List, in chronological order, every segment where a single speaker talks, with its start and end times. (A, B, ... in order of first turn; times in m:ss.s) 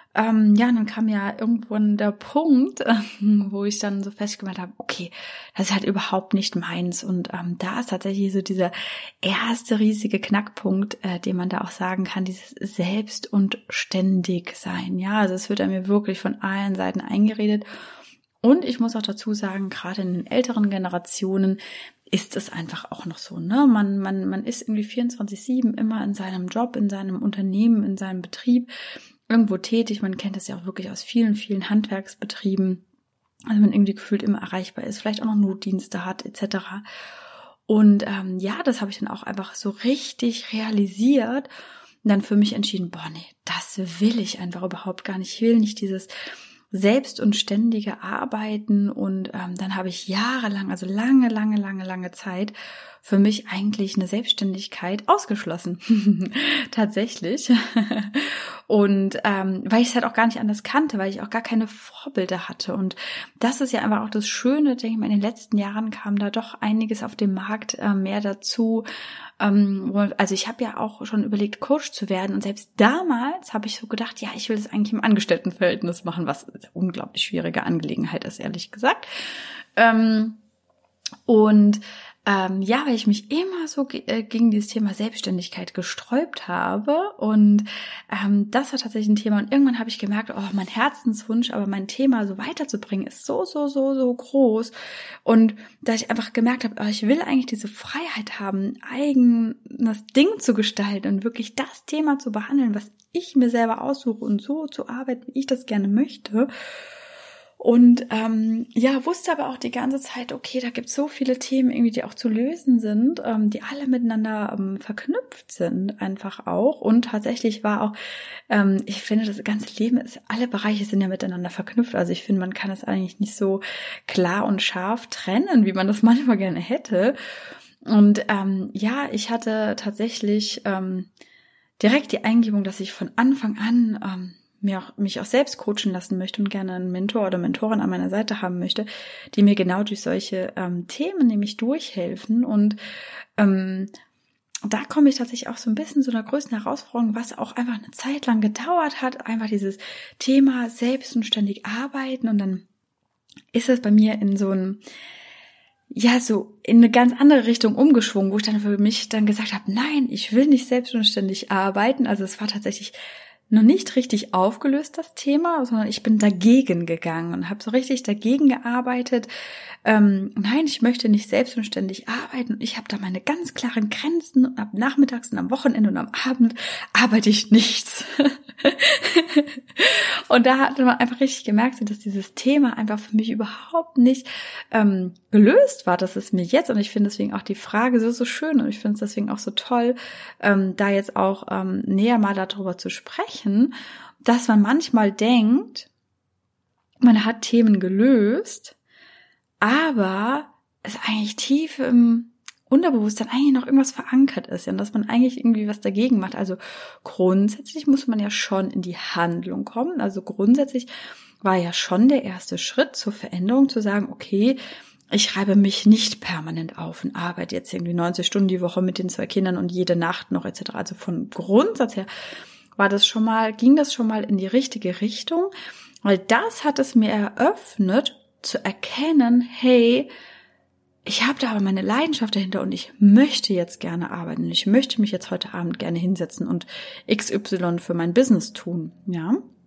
0:00.2-0:17.7 A
0:18.4-0:21.6 A
0:22.1-0:28.7 A
0:29.3-0:32.8 A
0:33.5-0:36.8 A
0:37.7-0:41.5 A
0:42.0-0:46.1 A
0:46.7-1:08.9 A
1:09.4-1:19.1 A
1:19.8-1:20.4 A
1:21.3-1:34.7 A
1:35.2-1:46.5 A
1:47.6-1:58.0 A
1:58.5-2:07.2 A
2:07.8-2:11.1 A
2:11.8-2:22.8 A
2:23.4-2:23.9 A
2:24.7-2:32.6 A
2:33.5-2:34.8 A
2:36.0-2:43.0 A
2:43.5-2:49.3 A
2:49.8-3:13.7 A
3:14.2-3:15.9 A
3:17.0-3:18.8 A
3:19.6-3:30.9 A
3:31.4-3:34.6 A
3:35.1-3:42.1 A
3:42.8-3:45.5 A
3:46.0-3:50.1 A
3:51.1-3:59.4 A